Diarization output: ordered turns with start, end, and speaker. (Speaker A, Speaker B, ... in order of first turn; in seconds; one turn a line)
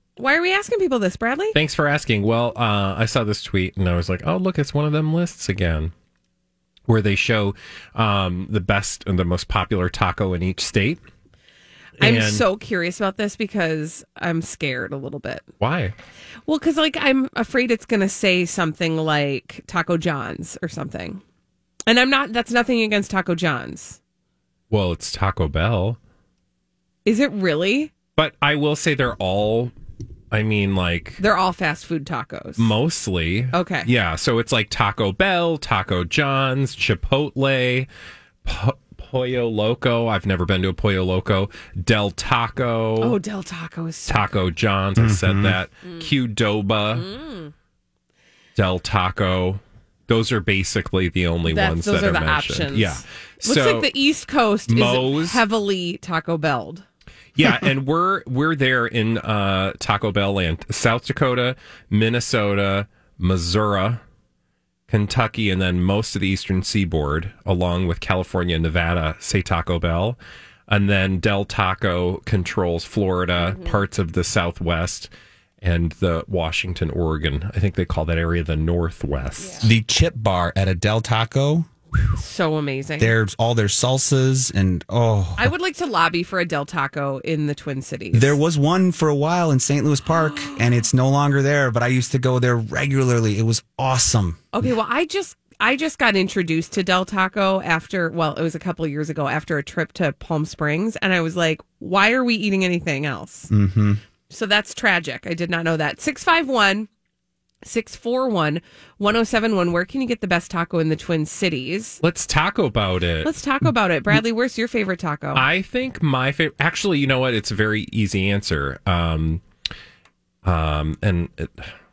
Speaker A: 0.2-1.6
Speaker B: 1.5-5.9
Speaker B: 6.9-11.0
Speaker B: 12.0-12.4
Speaker A: 12.0-15.4
Speaker B: 15.6-15.9
Speaker A: 16.5-21.2
Speaker A: 21.9-24.0
Speaker B: 24.7-26.0
Speaker A: 27.0-27.9
Speaker B: 28.1-29.7
Speaker B: 30.3-31.2
Speaker A: 31.2-32.7
Speaker B: 32.6-37.9
Speaker A: 33.5-33.9
Speaker B: 38.4-43.2
Speaker A: 43.0-44.3
Speaker B: 44.1-47.1
Speaker C: 45.0-45.6
Speaker A: 45.8-46.1
Speaker A: 46.9-47.5
Speaker B: 48.5-53.9
Speaker A: 51.5-56.8
Speaker B: 54.7-55.4
Speaker B: 57.3-64.0
Speaker B: 64.9-75.1
Speaker A: 73.4-73.8
Speaker B: 75.6-79.6
Speaker A: 79.4-79.7
Speaker C: 79.6-81.7
Speaker A: 82.2-83.1
Speaker C: 83.0-85.5
Speaker A: 85.4-88.4
Speaker C: 88.1-94.5
Speaker A: 90.3-90.6
Speaker A: 94.5-103.5
Speaker C: 103.5-104.0
Speaker A: 104.3-106.9
Speaker A: 107.6-112.0
Speaker B: 112.0-113.3
Speaker A: 113.2-115.4
Speaker B: 115.3-119.4
Speaker B: 120.4-121.7